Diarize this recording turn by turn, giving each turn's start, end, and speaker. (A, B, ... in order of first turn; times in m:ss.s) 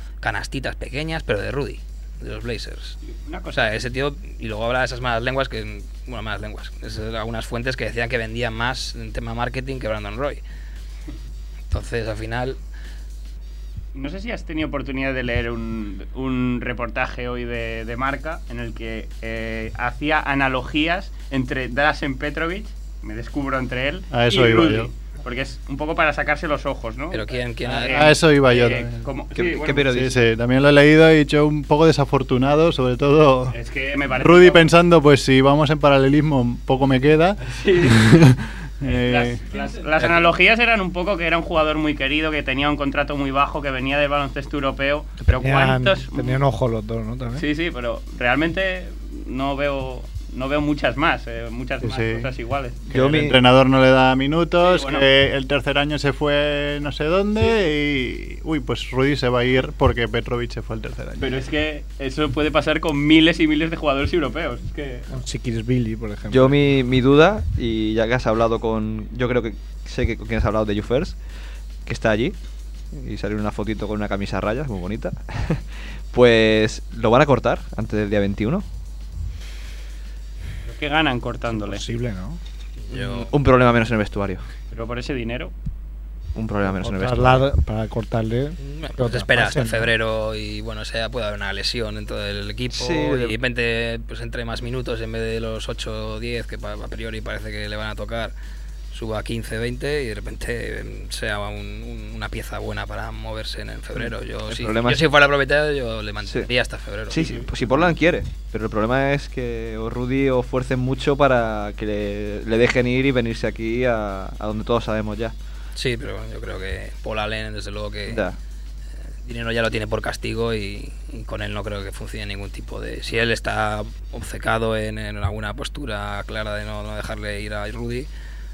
0:00.2-0:03.0 A
0:03.0-0:03.8 B
0:03.5-0:10.4 A
0:11.7-0:12.6 A
0:13.9-0:29.9 B
0:24.1-0:24.9 C
0:27.1-0:28.1 A
0:27.9-0:29.1 C
0:29.3-0:30.2 D
0:29.8-0:33.6 C
0:33.5-0:34.7 B
0:34.1-0:39.4 C
0:37.4-0:38.0 B
0:38.8-0:46.4 B
0:45.3-0:47.4 E
0:47.4-0:52.8 B
0:51.8-0:52.3 C
0:52.9-1:01.4 C
0:52.9-0:53.4 D
0:54.6-0:55.0 B
1:01.2-1:05.1 B
1:05.1-1:06.6 E
1:06.3-1:11.2 D
1:11.8-1:12.4 D
1:12.9-1:18.6 D
1:20.7-1:21.8 B
1:21.5-1:22.4 E
1:22.9-1:23.3 A
1:22.9-1:24.4 D
1:24.7-1:25.5 B
1:26.3-1:27.4 D
1:26.6-1:29.9 E
1:28.7-1:38.3 A
1:32.7-1:33.3 D
1:38.9-1:47.4 A
1:44.0-1:45.0 D
1:47.1-1:55.3 D
1:55.8-1:58.2 A
1:58.1-1:58.4 D
1:59.2-2:08.1 A